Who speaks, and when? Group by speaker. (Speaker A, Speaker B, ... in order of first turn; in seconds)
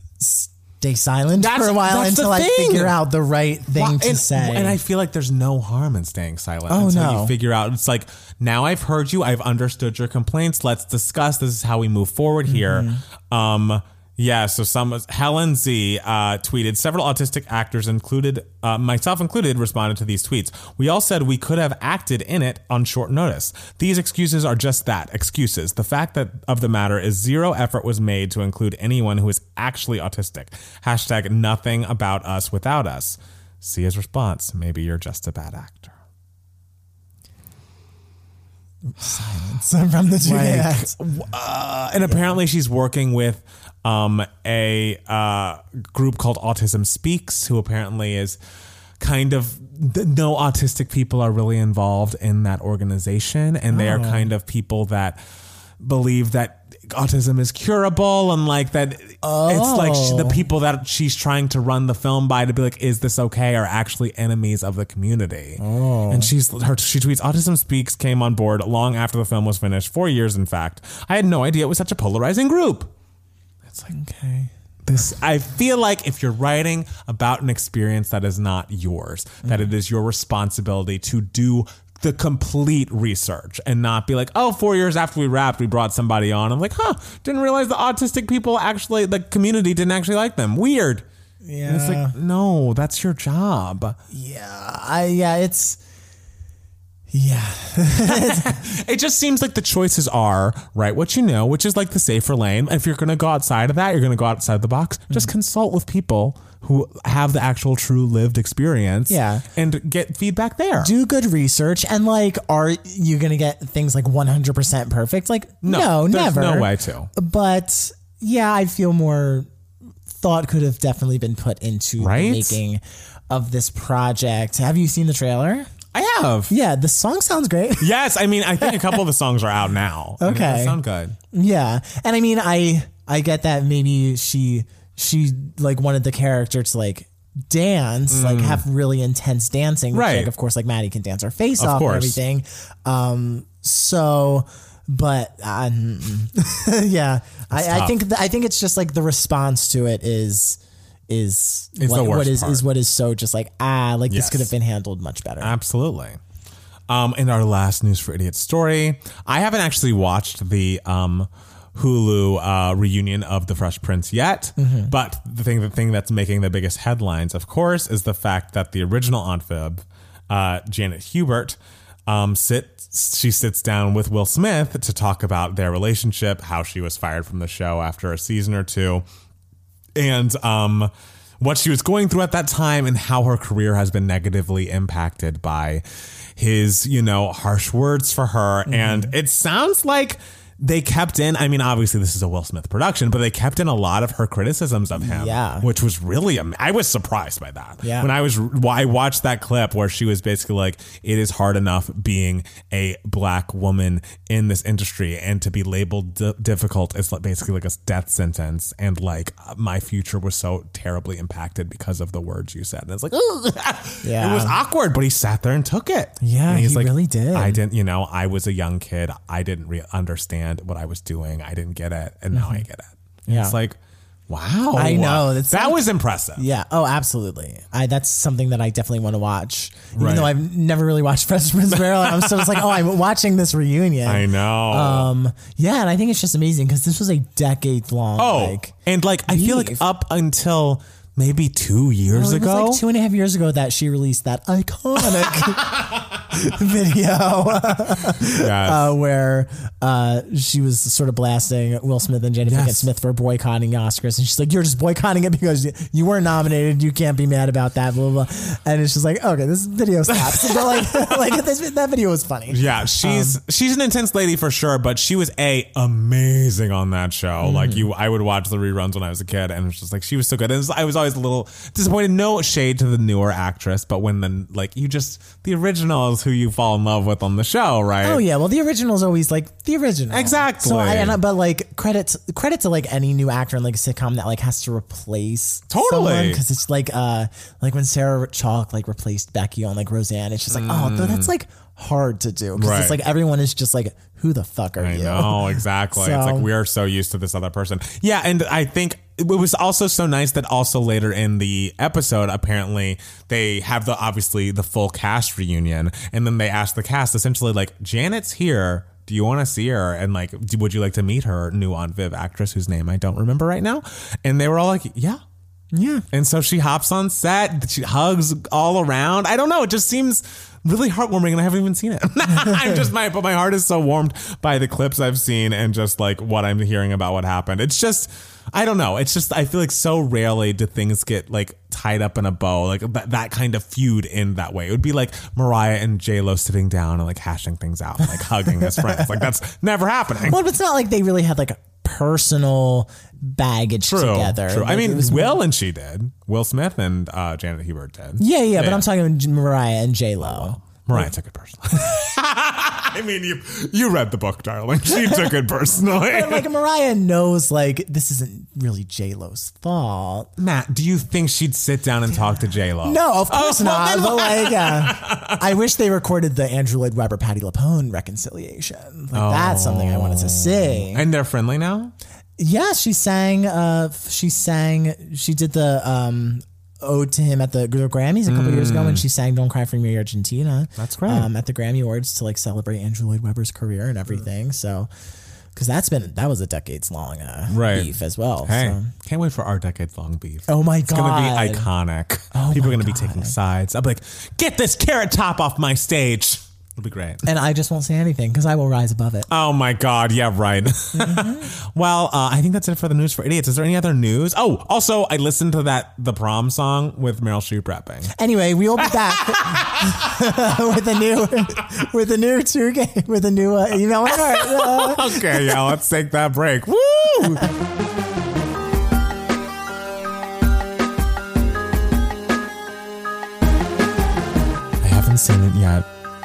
Speaker A: 0.2-4.8, 6.7-7.3, 12.5-13.0, 38.9-40.9, 42.1-42.4, 53.7-54.3, 59.2-60.4, 65.6-66.3, 73.9-74.5, 91.4-92.1, 94.1-95.8, 97.1-98.7, 109.1-109.5, 110.8-119.5, 120.1-125.7, 126.5-127.9, 128.6-129.0, 130.2-130.8, 131.3-155.5, 164.6-164.9, 188.7-189.1, 195.0-195.7, 197.8-198.1, 214.0-214.6, 216.2-217.6, 222.3-222.6, 223.3-223.6, 224.7-225.8, 226.4-238.7, 239.3-239.8, 242.1-263.4, 267.4-267.9, 278.0-296.5, 315.7-316.1, 338.6-339.2, 340.2-345.4, 348.2-351.1, 354.9-355.3, 355.9-360.3, 362.8-371.0, 372.4-384.9, 385.5-388.9, 390.5-391.7, 392.3-393.3, 397.2-399.3, 400.9-401.5, 408.1-415.6
Speaker B: 1.4-3.0, 3.7-35.9, 40.2-48.4, 49.0-55.2, 55.8-72.9, 73.7-73.9, 74.8-91.0, 91.6-94.0, 98.0-110.9, 115.6-117.1, 122.0-122.6, 125.9-126.5, 127.8-131.2, 138.1-138.6, 139.9-140.3, 141.6-142.2, 147.5-147.9, 151.8-152.6, 154.1-154.5, 155.4-156.2, 156.9-179.0, 179.9-185.8, 186.3-223.8, 224.3-226.4, 229.9-230.3, 231.7-232.7, 234.0-235.1, 238.2-242.8, 248.2-248.9, 252.4-252.8, 260.1-261.1, 262.5-278.2, 280.1-281.2, 285.7-286.4, 290.5-291.3, 292.6-293.0, 294.8-315.2, 316.1-340.4, 343.9-348.8, 350.2-356.5, 360.4-365.4, 369.1-371.9, 378.3-379.0, 380.8-381.3, 387.5-387.9, 388.4-397.2, 399.3-408.1, 408.8-410.2, 414.2-417.5, 424.8-425.9